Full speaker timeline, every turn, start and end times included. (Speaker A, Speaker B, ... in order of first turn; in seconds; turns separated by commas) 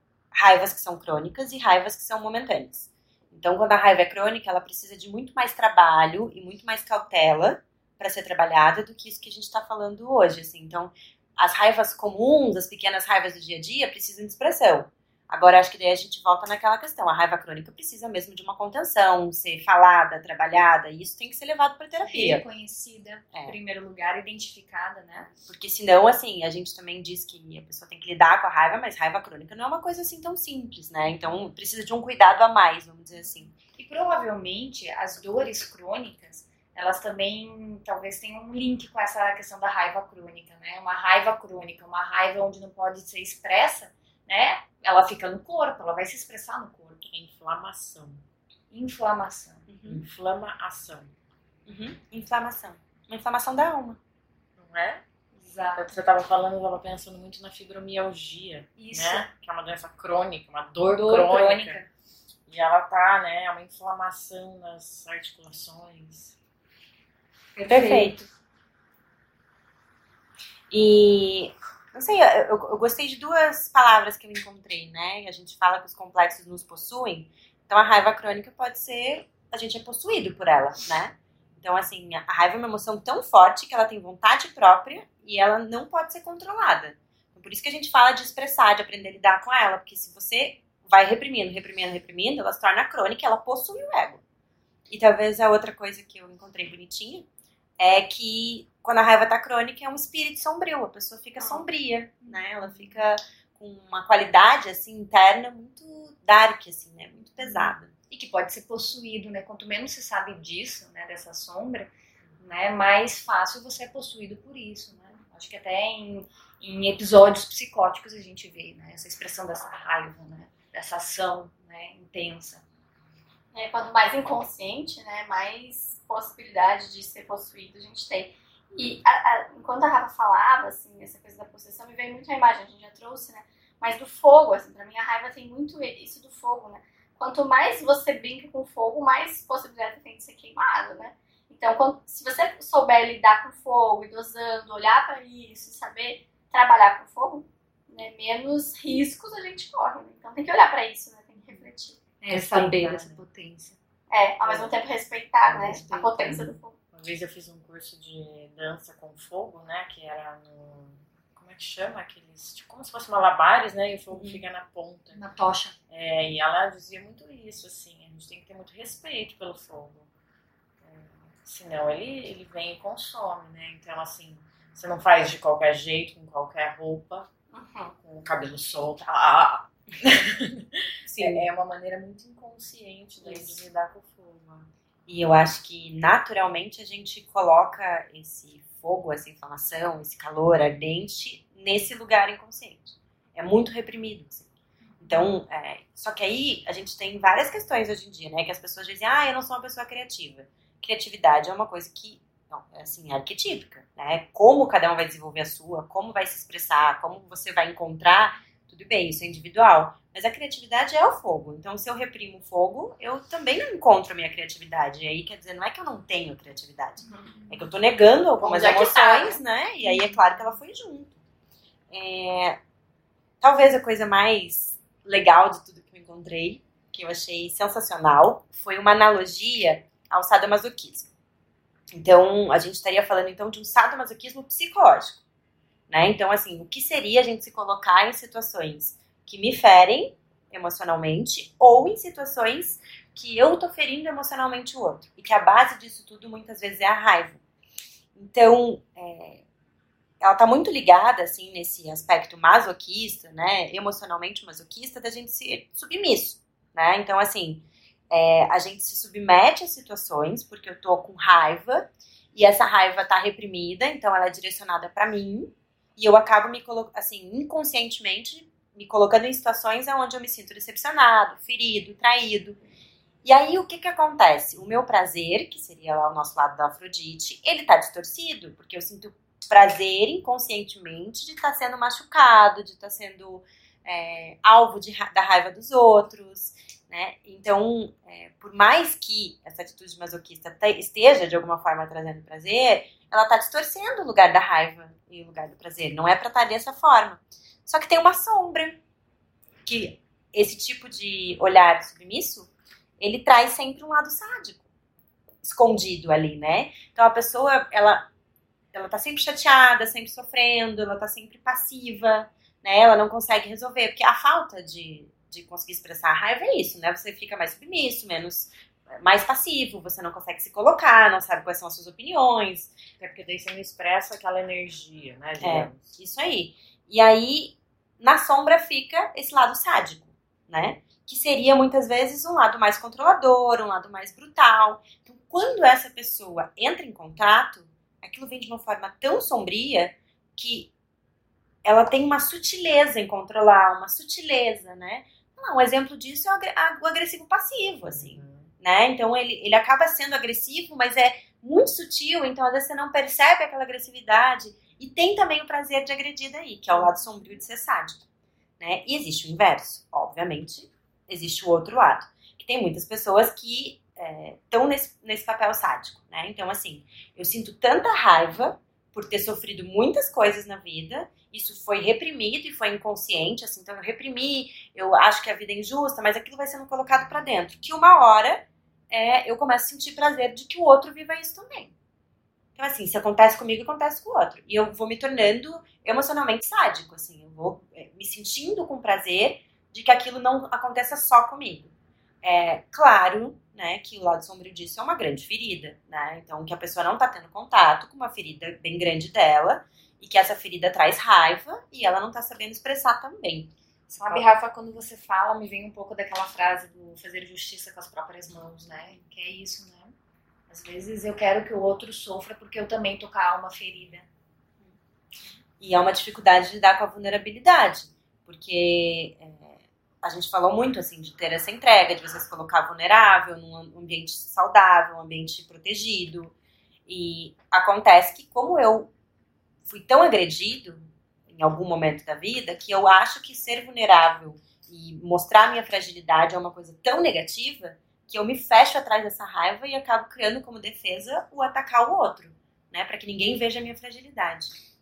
Speaker A: 0.3-22.4, Speaker B: 22.0-25.3, Speaker A: 25.5-33.5, Speaker B: 33.6-47.0, Speaker C: 47.0-48.2, Speaker B: 48.7-49.7, Speaker A: 49.7-50.0, Speaker C: 49.9-51.1, Speaker A: 51.7-54.0, Speaker C: 54.6-55.0, Speaker B: 55.4-55.9, Speaker C: 55.8-61.8, Speaker B: 58.8-59.3, Speaker B: 60.9-61.9, Speaker C: 62.5-66.4, Speaker B: 67.5-68.3, Speaker A: 67.7-68.2, Speaker A: 70.7-94.2, Speaker A: 94.9-97.3, Speaker A: 97.8-107.9, Speaker D: 101.4-101.6, Speaker B: 102.3-102.8, Speaker B: 107.5-122.6, Speaker D: 123.5-152.0, Speaker B: 152.2-153.8, Speaker A: 152.3-153.2, Speaker D: 154.1-156.7, Speaker B: 155.5-156.5, Speaker C: 155.5-155.8, Speaker C: 156.9-165.2, Speaker A: 164.1-164.4, Speaker B: 165.1-165.8, Speaker C: 165.9-170.1, Speaker C: 170.8-177.3, Speaker D: 177.5-177.9, Speaker C: 178.0-184.7, Speaker A: 181.1-181.4, Speaker D: 183.2-183.6, Speaker A: 185.1-194.5, Speaker A: 195.0-221.2, Speaker D: 218.4-219.4, Speaker A: 221.9-222.6, Speaker A: 223.4-231.1, Speaker A: 231.9-235.2, Speaker A: 235.9-247.4, Speaker A: 248.2-249.4, Speaker A: 250.2-272.6, Speaker A: 273.2-298.8, Speaker A: 299.6-304.7, Speaker A: 305.4-308.1, Speaker A: 308.7-322.8, Speaker C: 323.0-325.9, Speaker A: 325.4-340.7, Speaker A: 341.6-358.0, Speaker C: 347.9-348.5, Speaker A: 358.6-381.7, Speaker A: 382.6-391.7, Speaker A: 392.2-404.2, Speaker B: 404.0-409.9, Speaker B: 410.5-414.1, Speaker A: 415.6-426.3, Speaker A: 426.9-428.9, Speaker A: 429.7-444.6